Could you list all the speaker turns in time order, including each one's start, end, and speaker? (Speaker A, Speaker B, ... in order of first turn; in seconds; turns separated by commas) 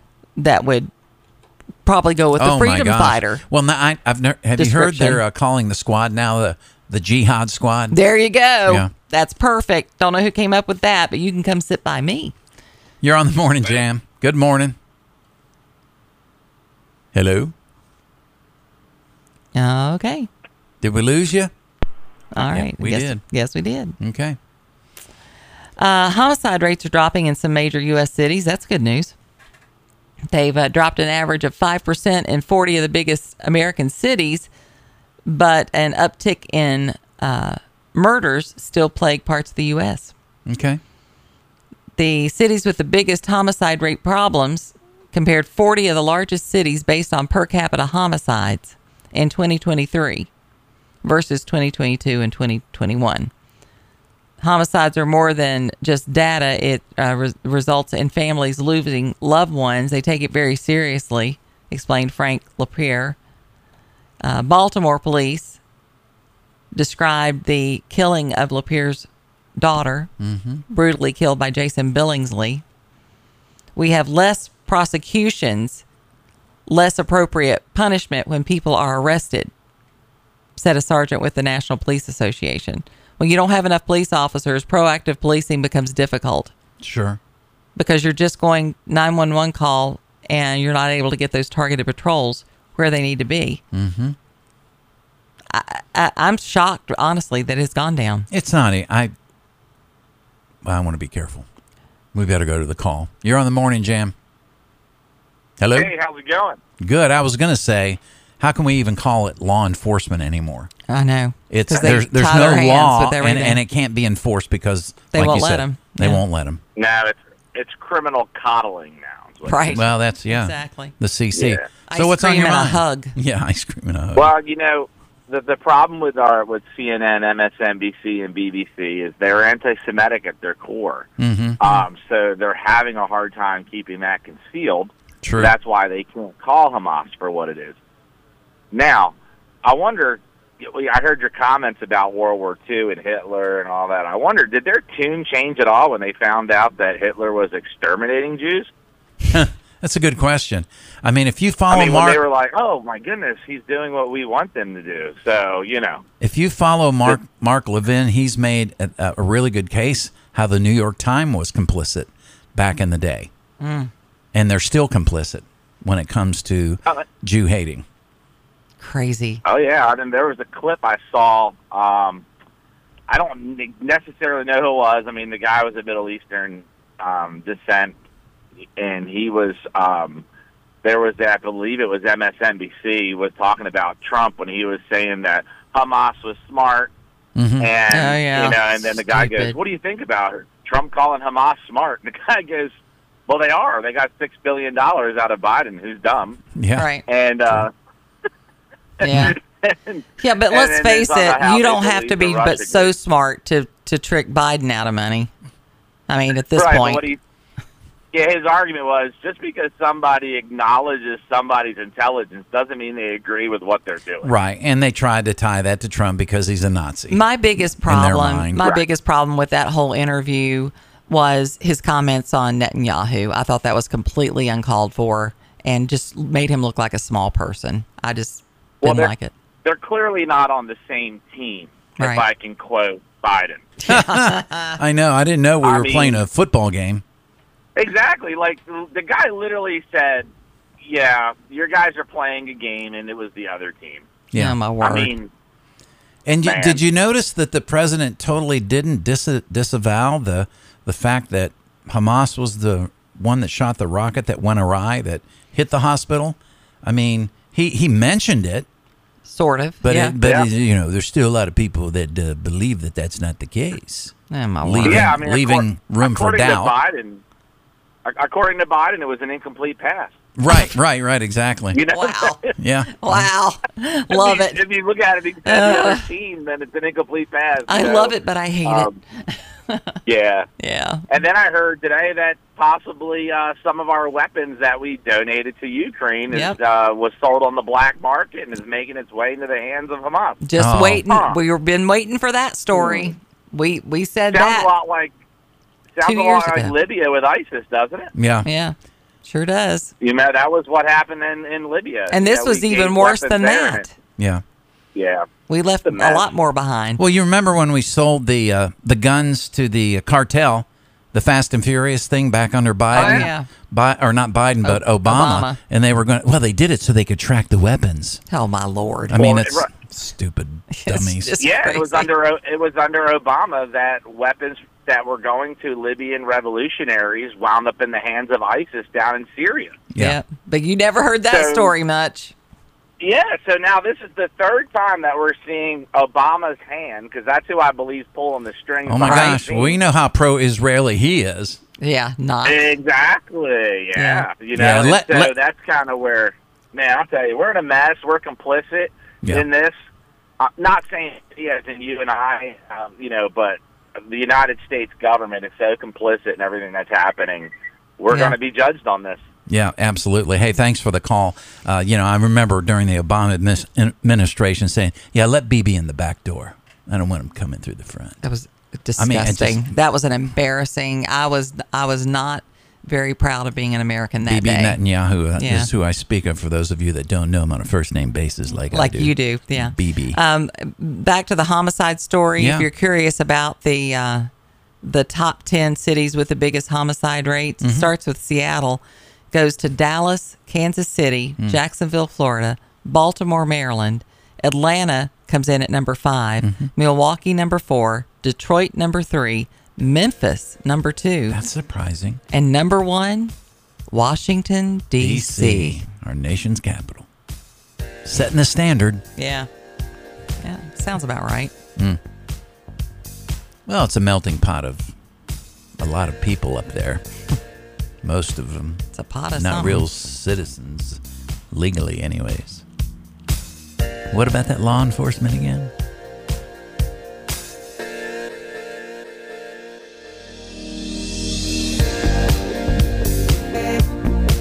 Speaker A: 0.4-0.9, Speaker A: 1.9-3.4, Speaker B: 2.4-8.0, Speaker A: 4.6-5.2, Speaker A: 7.9-12.3, Speaker B: 13.0-14.8, Speaker B: 17.1-17.5, Speaker A: 19.6-20.3, Speaker B: 20.8-21.5, Speaker A: 22.3-24.0, Speaker B: 22.4-23.2, Speaker B: 24.0-24.4, Speaker A: 25.8-29.1, Speaker A: 30.3-34.5, Speaker A: 35.3-40.1, Speaker B: 40.5-40.8, Speaker A: 42.0-50.3, Speaker A: 51.0-53.3, Speaker A: 54.4-63.2, Speaker A: 64.2-65.6, Speaker A: 66.7-70.1, Speaker B: 70.2-70.6, Speaker A: 70.7-72.6, Speaker A: 73.8-75.8, Speaker A: 76.7-79.5, Speaker A: 80.6-86.5, Speaker B: 86.8-87.2, Speaker A: 87.8-93.6, Speaker B: 93.7-94.2, Speaker A: 95.5-98.3, Speaker B: 98.3-99.1, Speaker B: 100.6-101.5, Speaker B: 102.1-104.1, Speaker B: 105.6-105.9, Speaker C: 105.7-106.6, Speaker B: 106.8-110.7, Speaker A: 110.9-113.6, Speaker B: 111.5-116.6, Speaker A: 115.1-116.2, Speaker C: 116.8-119.8, Speaker A: 119.5-120.9, Speaker B: 119.7-124.3, Speaker C: 121.3-121.6, Speaker A: 121.9-123.2, Speaker C: 124.2-137.8, Speaker B: 131.2-131.6, Speaker B: 135.2-135.5, Speaker C: 138.7-148.7, Speaker B: 149.3-152.2, Speaker C: 151.7-156.0, Speaker B: 156.2-163.3, Speaker A: 163.6-163.9, Speaker B: 164.3-167.8, Speaker A: 168.8-169.4, Speaker C: 169.4-172.2, Speaker C: 173.1-177.9, Speaker C: 178.8-180.2, Speaker C: 180.8-186.9, Speaker B: 187.4-187.7, Speaker C: 187.6-192.7, Speaker A: 187.9-189.6, Speaker C: 193.3-196.4, Speaker B: 196.6-196.9, Speaker A: 196.8-197.1, Speaker C: 197.1-197.7, Speaker C: 199.0-202.9, Speaker A: 199.0-199.4, Speaker A: 200.2-205.3, Speaker A: 206.1-207.0, Speaker C: 206.6-207.2, Speaker C: 208.1-214.3, Speaker B: 214.2-217.2, Speaker A: 217.1-229.3, Speaker B: 217.8-218.6, Speaker C: 218.6-218.8, Speaker C: 228.8-229.1, Speaker C: 229.7-233.7, Speaker A: 232.0-232.3, Speaker A: 233.8-234.8, Speaker B: 233.9-237.0, Speaker C: 235.6-236.2, Speaker C: 237.8-240.3, Speaker C: 240.8-244.1, Speaker B: 244.3-244.6, Speaker A: 244.3-245.1, Speaker C: 244.8-245.3, Speaker B: 246.3-258.7, Speaker C: 246.4-246.8, Speaker A: 259.3-260.2, Speaker B: 259.8-266.7, Speaker C: 260.2-260.5, Speaker A: 264.3-265.1, Speaker C: 264.8-267.2, Speaker C: 268.1-270.1, Speaker B: 270.4-271.8, Speaker C: 271.7-272.4, Speaker A: 271.9-274.6, Speaker B: 272.6-273.3, Speaker C: 274.1-278.1, Speaker A: 275.4-276.1, Speaker A: 277.7-280.0, Speaker C: 278.6-278.9, Speaker C: 280.1-280.5, Speaker A: 280.6-281.0, Speaker C: 281.1-290.4, Speaker A: 286.3-286.6, Speaker A: 290.4-294.7, Speaker B: 290.6-291.0, Speaker C: 291.1-291.4, Speaker C: 292.7-293.1, Speaker C: 294.3-295.1, Speaker C: 296.0-298.1, Speaker A: 296.0-296.7, Speaker B: 298.1-298.5, Speaker A: 298.4-299.9, Speaker C: 300.0-303.8, Speaker A: 302.1-303.9, Speaker B: 304.2-304.4, Speaker C: 304.9-305.3, Speaker A: 305.5-307.0, Speaker C: 305.9-306.3, Speaker B: 307.0-318.2, Speaker A: 312.9-313.5, Speaker C: 312.9-313.3, Speaker A: 314.6-315.6, Speaker A: 318.3-319.2, Speaker B: 319.1-321.4, Speaker C: 319.2-319.7, Speaker A: 320.7-322.1, Speaker C: 321.4-329.8, Speaker B: 329.9-330.2, Speaker A: 330.0-332.3, Speaker C: 331.3-331.7, Speaker C: 333.0-339.8, Speaker B: 338.9-341.6, Speaker A: 339.0-339.4, Speaker A: 341.8-342.7, Speaker C: 342.4-349.8, Speaker A: 344.0-344.3, Speaker B: 344.5-345.3, Speaker C: 350.4-359.2, Speaker A: 358.1-358.4, Speaker B: 359.5-368.2, Speaker A: 368.2-374.8, Speaker B: 369.0-369.7, Speaker B: 374.2-380.2, Speaker A: 375.4-375.7, Speaker A: 378.7-384.3, Speaker B: 382.4-382.7, Speaker A: 384.8-388.8, Speaker B: 387.6-387.9, Speaker A: 389.3-401.4, Speaker B: 396.4-396.7, Speaker B: 401.3-402.2, Speaker A: 402.3-403.3, Speaker A: 403.9-405.8, Speaker B: 405.0-407.1, Speaker B: 408.1-409.1, Speaker A: 409.2-409.5, Speaker A: 410.4-411.5, Speaker B: 413.7-414.9, Speaker B: 415.8-417.0, Speaker B: 418.0-418.8, Speaker A: 418.9-419.9, Speaker B: 419.4-421.0, Speaker B: 421.5-422.6, Speaker B: 424.1-425.7